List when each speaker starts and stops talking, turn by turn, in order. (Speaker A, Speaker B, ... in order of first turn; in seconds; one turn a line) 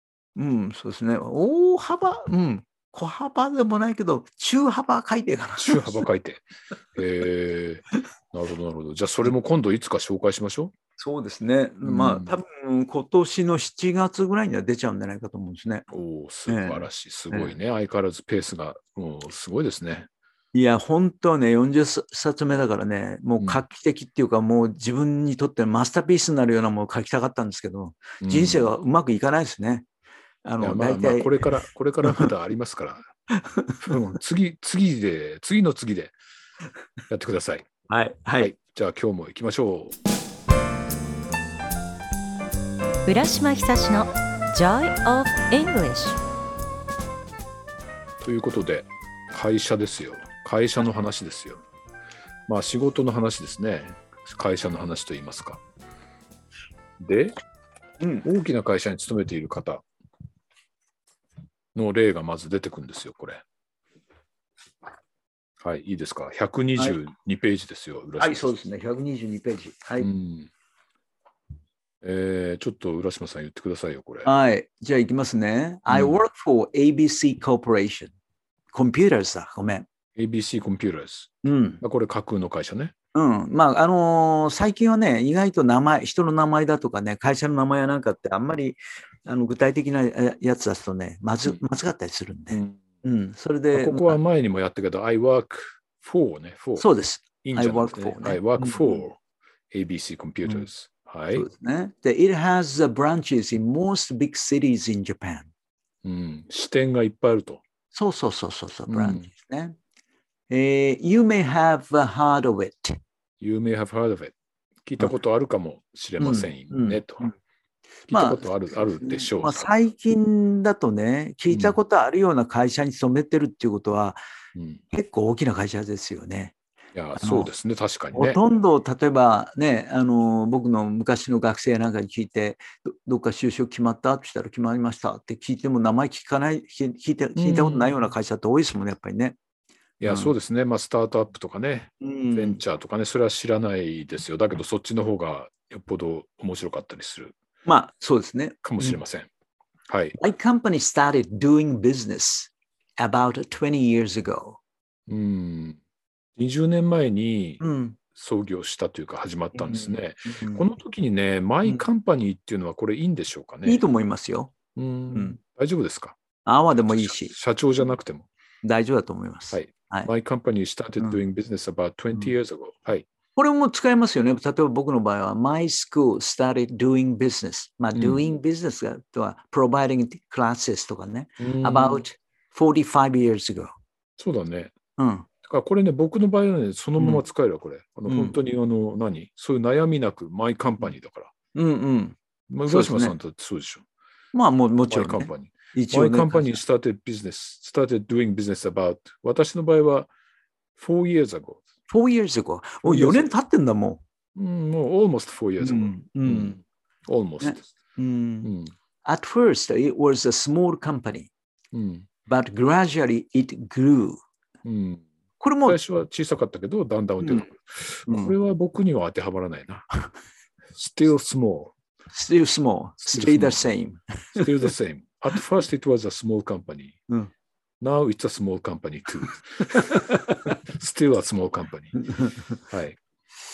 Speaker A: 0.3-6.0
Speaker B: 5.6-10.8
Speaker A: 11.0-15.9
Speaker B: 11.8-12.4
Speaker B: 15.9-20.1
Speaker A: 16.5-17.5
Speaker A: 20.5-29.9
Speaker B: 28.2-28.7
Speaker A: 30.4-31.5
Speaker B: 30.6-33.1
Speaker A: 32.0-32.3
Speaker A: 33.4-33.9
Speaker B: 33.8-36.1
Speaker B: 37.1-37.7
Speaker A: 37.9-38.5
Speaker B: 38.4-40.0
Speaker C: 43.0-46.2
Speaker B: 48.2-51.6
Speaker B: 52.5-55.6
Speaker B: 57.0-57.4
Speaker A: 58.0-58.3
Speaker B: 58.2-59.8
Speaker B: 61.8-63.4
Speaker B: 65.6-68.5
Speaker A: 68.2-70.1
Speaker B: 70.0-70.5
Speaker B: 72.0-74.3
Speaker A: 74.2-78.1
Speaker B: 75.9-76.2
Speaker A: 78.7-79.9
Speaker B: 80.2-82.9
Speaker A: 81.4-81.8
Speaker A: 83.1-94.2
Speaker B: 92.5-92.8
Speaker B: 93.7-96.9
Speaker A: 96.8-99.0
Speaker B: 97.4-99.2
Speaker B: 99.7-101.5
Speaker A: 101.3-105.5
Speaker B: 106.0-107.6
Speaker A: 107.9-109.8
Speaker B: 108.9-109.3
Speaker A: 110.5-113.0
Speaker B: 113.4-117.3
Speaker A: 116.2-117.3
Speaker B: 118.1-119.7
Speaker A: 118.1-124.2
Speaker B: 121.5-121.8
Speaker B: 124.6-124.8
Speaker A: 124.9-126.5
Speaker B: 126.9-128.4
Speaker A: 127.2-127.5
Speaker A: 128.1-139.4
Speaker B: 137.4-137.9
Speaker B: 140.0-147.3
Speaker A: 140.1-140.3
Speaker A: 142.0-142.6
Speaker A: 147.7-149.0
Speaker B: 148.6-149.3
Speaker B: 149.9-150.2
Speaker A: 150.2-154.6
Speaker B: 155.1-155.8
Speaker B: 156.4-163.8
Speaker A: 157.6-158.0
Speaker A: 159.6-160.6
Speaker A: 163.7-164.6
Speaker B: 164.8-166.2
Speaker A: 165.1-165.4
Speaker A: 166.4-167.3
Speaker B: 166.9-168.3
Speaker A: 168.6-170.1
Speaker B: 169.5-173.1
Speaker A: 173.4-183.7
Speaker B: 177.9-178.2
Speaker B: 181.4-182.0
Speaker B: 184.2-184.8
Speaker A: 185.0-185.3
Speaker B: 185.4-191.3
Speaker A: 187.0-187.2
Speaker A: 188.1-188.4
Speaker A: 191.6-192.2
Speaker B: 192.5-193.8
Speaker A: 192.7-193.2
Speaker A: 194.3-196.6
Speaker B: 194.9-200.1
Speaker B: 200.8-201.6
Speaker A: 201.9-204.0
Speaker B: 202.8-203.3
Speaker B: 204.3-207.7
Speaker A: 205.6-206.6
Speaker A: 207.4-208.5
Speaker B: 208.4-208.8
Speaker A: 209.0-211.3
Speaker B: 211.7-212.1
Speaker A: 212.3-214.2
Speaker B: 214.7-215.1
Speaker A: 215.4-215.8
Speaker B: 215.7-219.9
Speaker A: 217.2-217.5
Speaker A: 218.1-218.3
Speaker B: 220.8-221.7
Speaker A: 222.1-224.7
Speaker B: 223.0-223.6
Speaker B: 224.3-227.0
Speaker B: 227.8-232.0
Speaker A: 232.1-232.5
Speaker B: 232.7-233.0